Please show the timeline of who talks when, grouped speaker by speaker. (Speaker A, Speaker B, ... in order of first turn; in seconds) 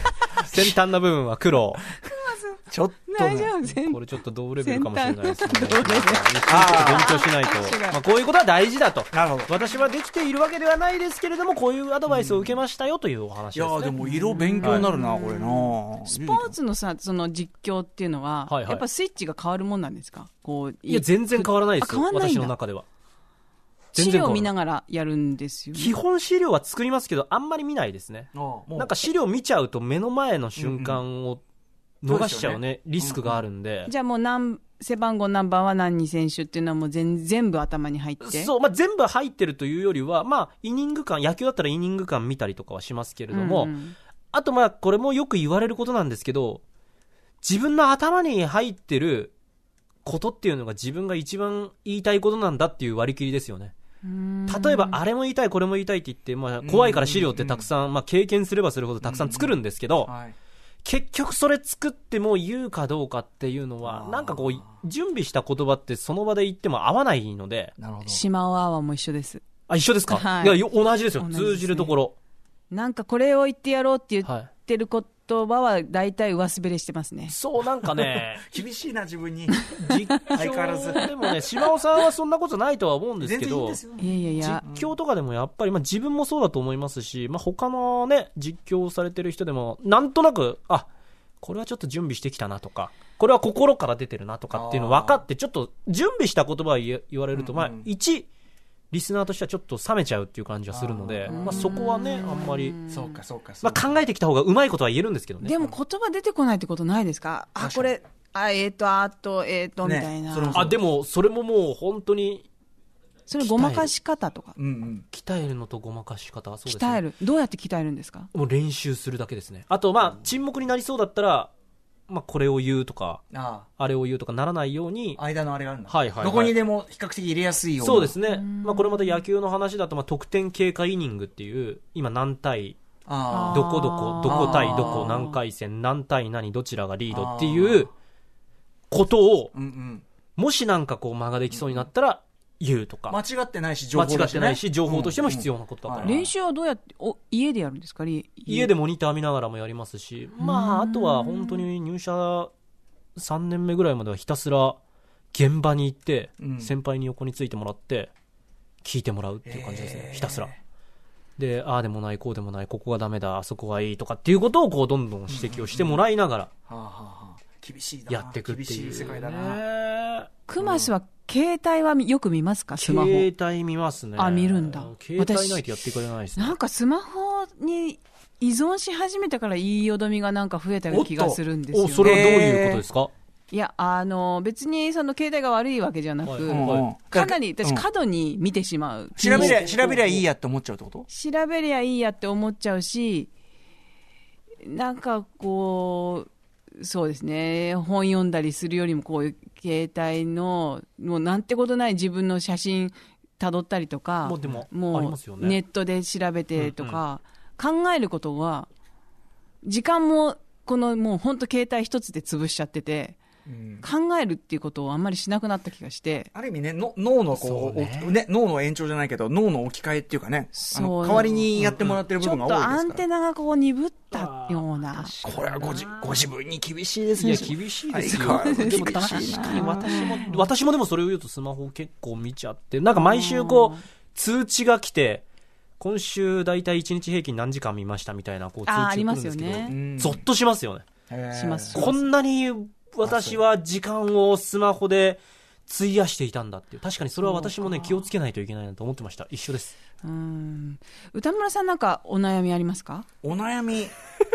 Speaker A: 0.4-1.9, 3.8-14.0, 18.5-18.8, 20.9-22.9, 23.9-24.5, 25.7-31.4, 32.0-33.9, 38.2-43.7, 44.3-46.6, 47.4-49.3, 50.0-53.7, 54.5-60.1, 60.8-67.7, 69.7-72.1, 77.3-78.5, 79.7-83.8, 84.4-90.9, 91.4-98.3, 98.9-102.7, 103.6-105.5, 110.5-112.5, 113.4-113.9, 115.1-117.0, 118.3-121.5, 122.1-123.2, 123.8-125.2, 125.9-126.5, 127.8-132.8, 133.5-137.9, 138.9-139.5, 140.4-143.2, 143.9-146.3, 148.5-152.5, 153.2-154.8, 155.3-158.1, 158.8-160.5, 161.4-166.5, 168.1-170.3, 172.8-176.6, 181.7-183.1, 186.2-186.8, 189.2-190.2, 204.2-205.6, 206.6-207.0, 217.3-218.2, 221.5-222.0, 224.1-226.2, 227.2-235.2, 235.8-240.9, 241.7-249.7
Speaker B: 2.0-4.0, 4.6-8.0, 14.0-22.5, 23.9-25.9, 33.9-38.5, 43.3-44.0, 54.0-55.0, 68.0-69.4, 70.1-70.6, 71.2-71.9, 72.7-77.3, 79.6-80.2, 84.0-84.6, 101.3-103.2, 105.4-110.7, 113.3-114.5, 116.7-118.3, 128.3-129.2, 133.3-135.4, 146.0-148.7, 150.4-151.7, 170.5-173.3, 174.2-175.6, 176.4-182.4, 183.5-189.6, 191.1-193.3, 194.6-208.7, 209.6-213.2, 213.8-216.3, 220.5-225.1, 228.0-230.3, 232.9-233.8, 238.7-239.8, 241.3-242.0, 247.2-248.1, 250.0-253.1
Speaker C: 2.7-3.5, 6.5-7.1, 9.1-9.5, 12.1-12.6, 13.5-16.5, 28.3-28.9, 30.6-31.0, 32.1-33.4, 56.6-57.7, 59.0-60.3, 63.8-64.7, 67.8-68.2, 78.4-79.7, 80.3-81.0, 83.2-84.9, 94.5-95.2, 97.3-97.9, 100.7-101.7, 102.9-103.9, 107.6-107.9, 109.8-110.8, 114.6-115.0, 123.3-123.7, 125.2-128.2, 133.1-135.2, 137.1-137.9, 139.5-140.0, 141.5-141.9, 143.1-146.2, 156.4-156.7, 159.4-160.6, 165.3-166.0, 166.7-169.6, 170.6-170.9, 180.9-181.4, 182.0-182.8, 186.5-187.8, 189.2-191.1, 213.4-213.9, 216.3-223.0, 225.2-230.4, 239.7-240.2, 241.1-241.8, 243.0-243.4, 253.2-253.9